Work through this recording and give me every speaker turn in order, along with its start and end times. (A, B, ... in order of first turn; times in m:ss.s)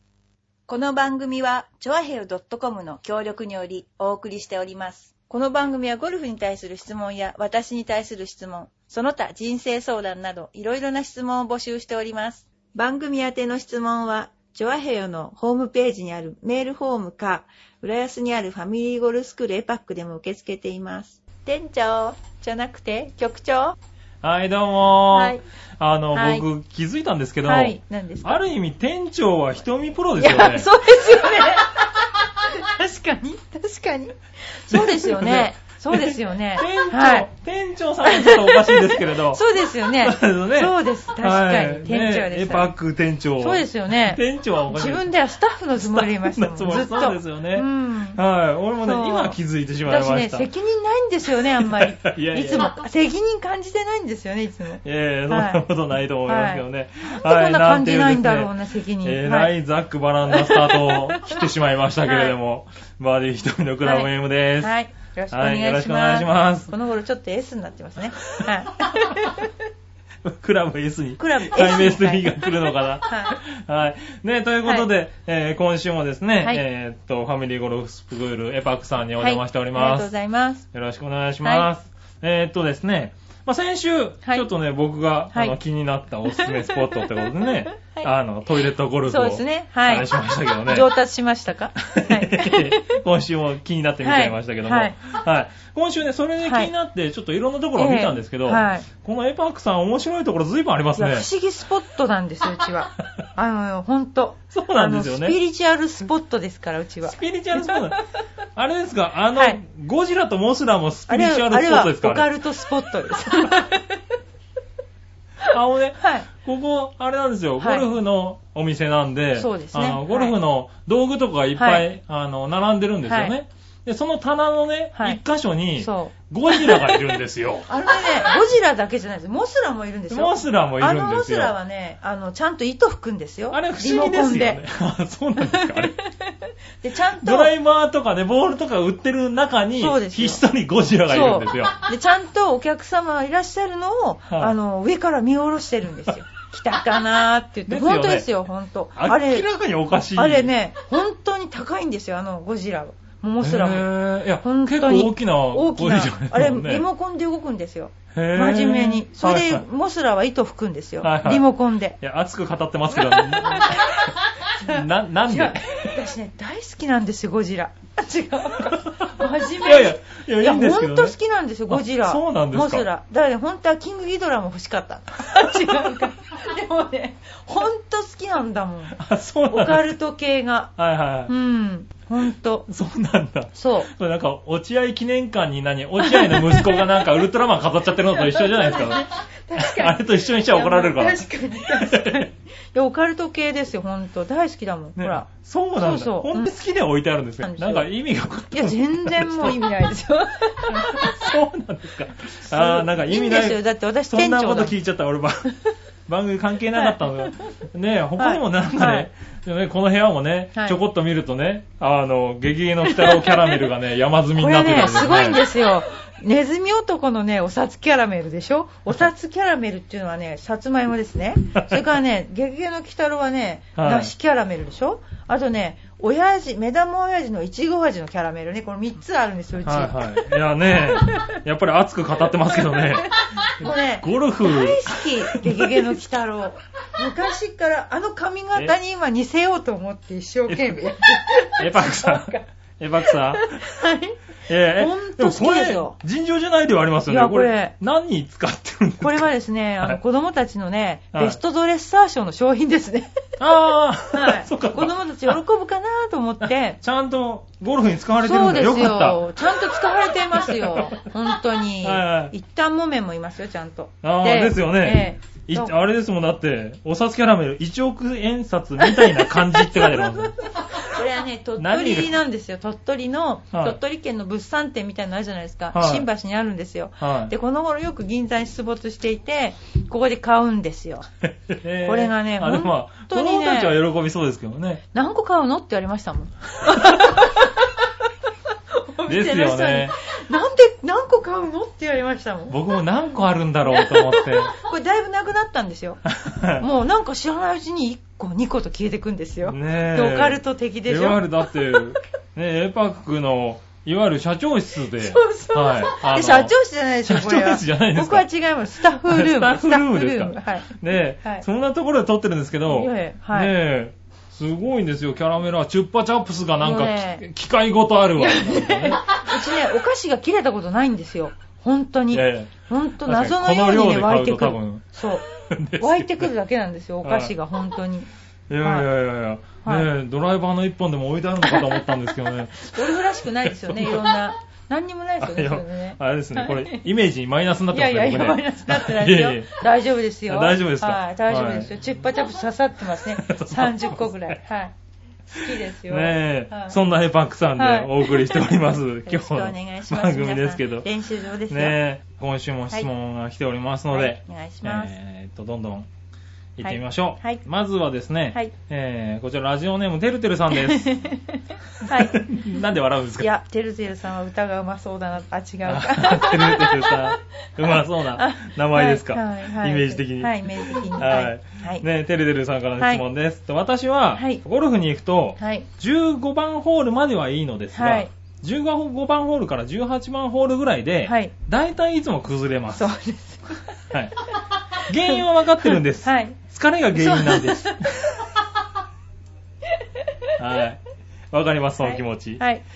0:00.7-0:23.8 A
0:24.2-0:30.7 B
0:25.1-0:25.4 A
0:26.1-0:26.4 A
0:27.4-0:28.4 A
0:30.2-0:37.3 A
0:34.7-0:45.1 B
0:38.0-0:42.7 A
0:43.4-0:48.2 A
0:45.8-0:50.5 B
0:48.8-0:55.6 A
0:51.3-0:52.7 B
0:54.8-1:04.7 B
0:56.3-0:59.5 A
1:00.2-1:01.4 A
1:02.0-1:02.4 A
1:03.8-1:09.6 A
1:05.3-1:06.7 B
1:08.4-1:09.1 B
1:10.2-1:20.1 B
1:11.2-1:13.4 A
1:19.2-1:20.6 A
1:20.7-1:30.9 B
1:21.4-1:21.7 A
1:26.3-1:28.1 A
1:29.0-1:30.1 A
1:30.7-1:33.0 A
1:31.8-1:41.3 B
1:34.0-1:35.0 A
1:36.4-1:36.7 A
1:37.8-1:38.8 A
1:41.0-1:48.0 A
1:44.5-1:45.4 B
1:47.0-1:48.0 B
1:48.5-1:52.3 B
1:51.1-1:54.0 A
1:55.5-2:07.7 B
1:56.0-1:56.3 A
1:57.6-1:57.9 A
1:59.4-2:00.3 A
2:01.6-2:01.8 A
2:03.1-2:03.3 A
2:04.9-2:05.2 A
2:05.8-2:07.0 A
2:07.7-2:14.6 A
2:10.1-2:11.5 B
2:13.5-2:15.9 B
2:15.4-2:17.5 A
2:17.2-2:21.8 B
2:19.8-2:20.4 A
2:21.1-2:29.5 A
2:24.3-2:24.5 B
2:27.7-2:28.3 B
2:29.0-2:30.5 B
2:30.1-2:42.0 A
2:33.4-2:36.8 B
2:38.1-2:39.6 B
2:41.0-2:41.5 B
2:42.0-2:46.0 B
2:43.0-3:00.7 A
2:48.6-2:51.1 B
2:51.7-2:52.8 B
2:55.3-2:55.9 B
2:58.9-2:59.9 B
3:00.8-3:01.3 B
3:01.3-3:02.7 A
3:02.7-3:12.3 B
3:03.5-3:03.9 A
3:06.0-3:07.0 A
3:08.1-3:16.5 A
3:15.0-3:19.6 B
3:17.4-3:17.9 A
3:18.5-3:21.3 A
3:20.7-3:25.5 B
3:22.4-3:24.8 A
3:26.1-3:35.4 B
3:26.7-3:27.4 A
3:28.2-3:29.1 A
3:32.8-3:33.7 A
3:34.4-3:50.4 A
3:41.6-3:41.8 B
3:43.8-3:44.1 B
3:49.6-3:56.0 B
3:50.9-3:51.4 A
3:52.7-4:02.4 A
4:00.5-4:00.7 B
4:01.6-4:03.8 B
4:03.0-4:04.2 A
4:04.5-4:09.3 B
4:04.7-4:06.0 A
4:07.1-4:07.7 A
4:09.0-4:13.1 A
4:13.4-4:15.4 B
4:14.1-4:16.8 A
4:16.4-4:19.8 B
4:18.2-4:25.7 A
4:20.3-4:21.0 B
4:21.8-4:22.3 B
4:24.0-4:30.8 B
4:28.8-4:41.0 A
4:31.6-4:32.2 B
4:33.5-4:33.8 B
4:35.7-4:36.1 B
4:37.0-4:37.3 B
4:41.2-4:44.8 B
4:41.8-4:43.8 A
4:44.9-4:47.8 A
4:46.7-4:47.2 B
4:48.7-4:52.6 A
4:49.1-4:50.0 B
4:52.5-4:54.5 B
4:53.6-5:02.0 A
4:56.1-4:56.6 B
4:59.4-5:08.2 B
5:04.9-5:11.4 A
5:09.0-5:19.2 B
5:12.6-5:13.5 A
5:16.6-5:17.2 A
5:18.2-5:25.2 A
5:22.1-5:22.5 B
5:23.0-5:26.3 B
5:25.8-5:28.1 A
5:27.0-5:27.3 B
5:28.5-5:34.2 B
5:28.6-5:28.9 A
5:31.4-5:31.9 A
5:32.6-5:36.8 A
5:35.2-5:39.6 B
5:37.7-5:44.7 A
5:40.3-5:41.7 B
5:43.1-5:44.4 B
5:45.3-5:46.8 A
5:45.5-5:50.9 B
5:47.6-5:51.8 A
5:51.5-5:55.9 B
5:53.9-5:54.9 A
5:56.6-6:00.9 B
5:56.6-5:57.4 A
6:00.5-6:02.2 A
6:01.8-6:03.3 B
6:03.2-6:11.8 A
6:05.6-6:22.9 B
6:12.8-6:13.0 A
6:14.2-6:14.4 A
6:15.4-6:15.7 A
6:17.7-6:18.1 A
6:21.0-6:21.3 A
6:22.7-6:23.6 A
6:23.9-6:28.0 B
6:25.0-6:26.4 A
6:26.9-6:28.3 A
6:30.4-6:30.8 B
6:31.3-6:32.4 B
6:31.8-6:32.6 A